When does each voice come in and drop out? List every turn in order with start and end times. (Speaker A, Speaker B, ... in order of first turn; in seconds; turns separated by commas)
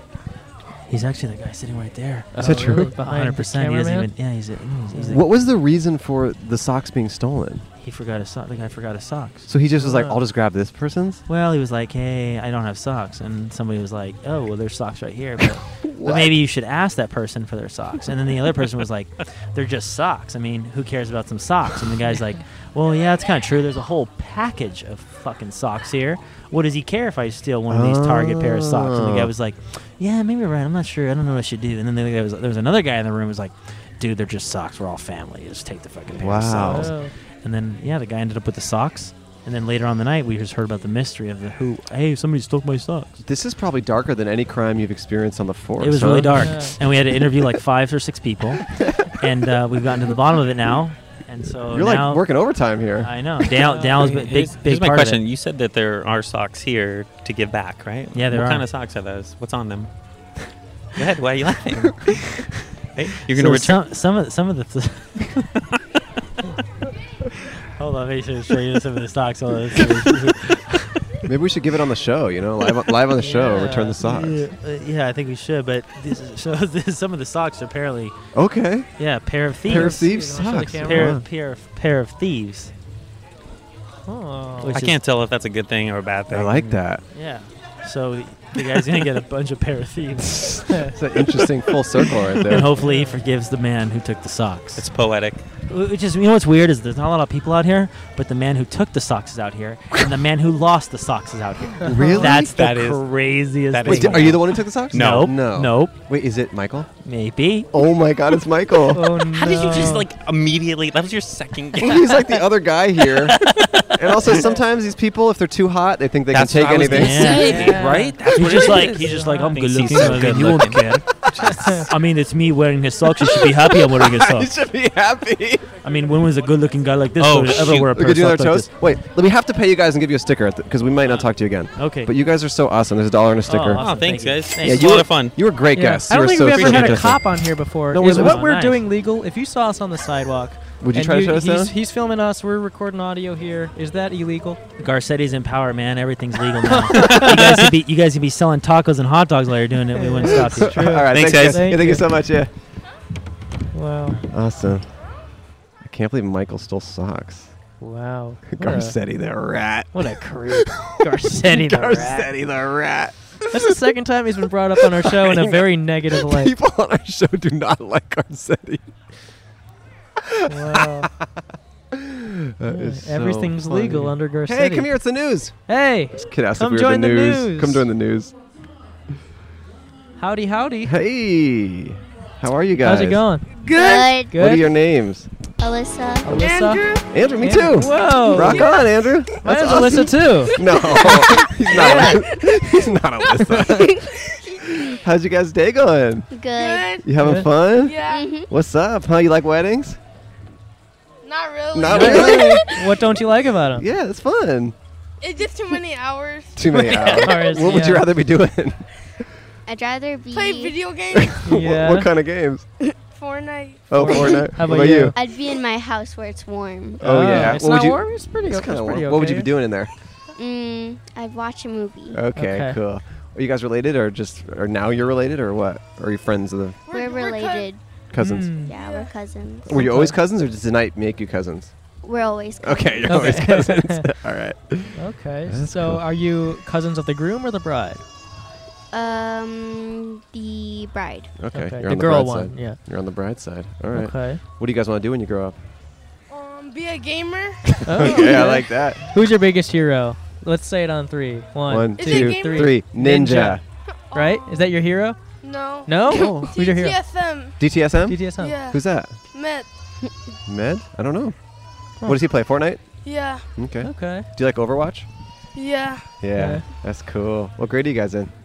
Speaker A: 0.9-5.2, Speaker B: 2.3-4.1, Speaker C: 2.4-2.9, Speaker B: 4.9-5.2, Speaker C: 5.1-7.7, Speaker A: 7.8-9.5, Speaker C: 9.5-11.2, Speaker B: 9.8-10.2, Speaker A: 11.3-43.2, Speaker C: 15.8-16.3, Speaker C: 27.7-29.3, Speaker C: 36.1-36.9, Speaker B: 36.6-37.1, Speaker C: 43.2-46.7, Speaker A: 45.8-52.2, Speaker B: 46.4-46.8, Speaker C: 51.7-53.5, Speaker A: 53.0-55.2, Speaker B: 53.6-54.1, Speaker D: 54.0-59.9, Speaker A: 58.1-58.6, Speaker D: 61.0-63.8, Speaker A: 63.3-65.5, Speaker A: 67.8-71.2, Speaker C: 71.2-74.4, Speaker B: 73.2-74.0, Speaker A: 73.4-78.2, Speaker C: 78.3-78.9, Speaker A: 79.0-82.7, Speaker B: 79.7-81.2, Speaker C: 79.7-81.2, Speaker B: 84.0-84.7, Speaker A: 84.6-85.0, Speaker D: 84.7-86.8, Speaker C: 86.3-87.0, Speaker A: 87.1-90.6, Speaker C: 90.3-92.7, Speaker A: 92.5-94.8, Speaker B: 92.8-93.2, Speaker D: 94.8-95.4, Speaker A: 95.7-105.9, Speaker C: 101.8-102.6, Speaker D: 102.2-105.3, Speaker C: 103.8-106.9, Speaker A: 107.0-107.7, Speaker C: 107.7-109.2, Speaker B: 108.9-110.0, Speaker D: 109.3-112.4, Speaker C: 111.8-113.4, Speaker D: 113.3-113.7, Speaker C: 113.9-117.8, Speaker D: 116.3-120.9, Speaker A: 116.9-124.5, Speaker B: 117.2-120.2, Speaker C: 121.2-121.8, Speaker B: 121.4-121.8, Speaker C: 123.3-125.7, Speaker A: 125.8-128.7, Speaker D: 127.2-127.9, Speaker C: 127.7-133.9, Speaker A: 131.8-132.1, Speaker A: 133.5-134.9, Speaker D: 133.8-135.4, Speaker C: 134.6-138.4, Speaker B: 135.7-144.6, Speaker D: 136.5-137.1, Speaker A: 137.9-138.8, Speaker C: 140.8-141.7, Speaker A: 144.8-151.1, Speaker B: 146.7-147.5, Speaker D: 147.0-147.6, Speaker B: 149.9-152.0, Speaker C: 150.3-152.5, Speaker D: 151.1-151.8, Speaker B: 153.7-154.2, Speaker C: 154.3-154.9, Speaker C: 155.8-157.5, Speaker B: 157.8-158.9, Speaker C: 158.5-163.8, Speaker B: 159.9-162.3, Speaker B: 163.5-166.5, Speaker C: 164.8-168.9, Speaker C: 170.2-171.1, Speaker B: 170.5-171.1, Speaker C: 171.9-175.6, Speaker B: 172.7-174.9, Speaker B: 175.7-177.8, Speaker C: 176.1-178.3, Speaker B: 180.2-180.9, Speaker C: 180.8-183.3, Speaker B: 182.8-183.5, Speaker E: 183.5-184.3, Speaker F: 183.6-184.4, Speaker B: 184.3-184.7, Speaker C: 184.3-185.3, Speaker F: 185.6-186.4, Speaker B: 186.2-186.8, Speaker E: 186.3-187.1, Speaker C: 187.1-194.1, Speaker B: 187.4-188.7, Speaker B: 189.4-190.6, Speaker E: 190.6-192.1, Speaker B: 191.7-192.2, Speaker C: 194.7-196.3, Speaker F: 196.3-197.0, Speaker E: 196.5-197.1, Speaker C: 197.0-198.0, Speaker B: 197.2-197.5, Speaker E: 197.8-198.3, Speaker F: 198.0-198.5, Speaker C: 198.5-200.0, Speaker E: 201.2-202.9, Speaker C: 201.7-202.6, Speaker B: 201.9-203.8, Speaker C: 203.8-204.7, Speaker E: 205.2-207.2, Speaker C: 206.5-208.9, Speaker B: 206.7-208.1, Speaker F: 209.7-210.9, Speaker E: 210.3-211.4, Speaker C: 211.1-212.7, Speaker B: 211.4-212.1, Speaker E: 213.1-214.4, Speaker C: 213.9-215.1, Speaker B: 213.9-215.2, Speaker F: 215.1-217.5, Speaker B: 217.0-219.5, Speaker C: 217.0-219.9, Speaker F: 220.3-222.2, Speaker C: 222.1-226.8, Speaker B: 222.3-222.8, Speaker E: 226.9-227.7, Speaker F: 226.9-228.1, Speaker C: 228.1-228.7, Speaker B: 228.2-228.7, Speaker F: 228.6-229.7, Speaker E: 228.7-229.1, Speaker C: 229.7-231.7, Speaker B: 229.7-230.2, Speaker F: 232.0-233.3, Speaker C: 232.6-236.0, Speaker B: 233.1-234.1, Speaker B: 234.9-238.0, Speaker F: 238.9-241.3, Speaker C: 241.4-245.6, Speaker B: 241.5-242.8, Speaker B: 243.9-244.4, Speaker E: 246.3-247.7, Speaker B: 247.8-255.2, Speaker C: 247.9-249.0, Speaker C: 251.7-253.6, Speaker E: 251.9-252.8, Speaker E: 253.9-254.7, Speaker E: 255.4-257.6, Speaker B: 255.8-257.0, Speaker C: 256.1-256.5, Speaker C: 257.6-259.1, Speaker B: 258.1-258.5, Speaker E: 258.4-258.8, Speaker E: 259.3-259.7, Speaker C: 260.4-261.4, Speaker C: 262.0-262.8, Speaker E: 263.0-263.4, Speaker C: 263.5-265.1, Speaker B: 263.8-264.3, Speaker E: 265.5-266.2, Speaker C: 266.2-268.3, Speaker B: 266.3-266.6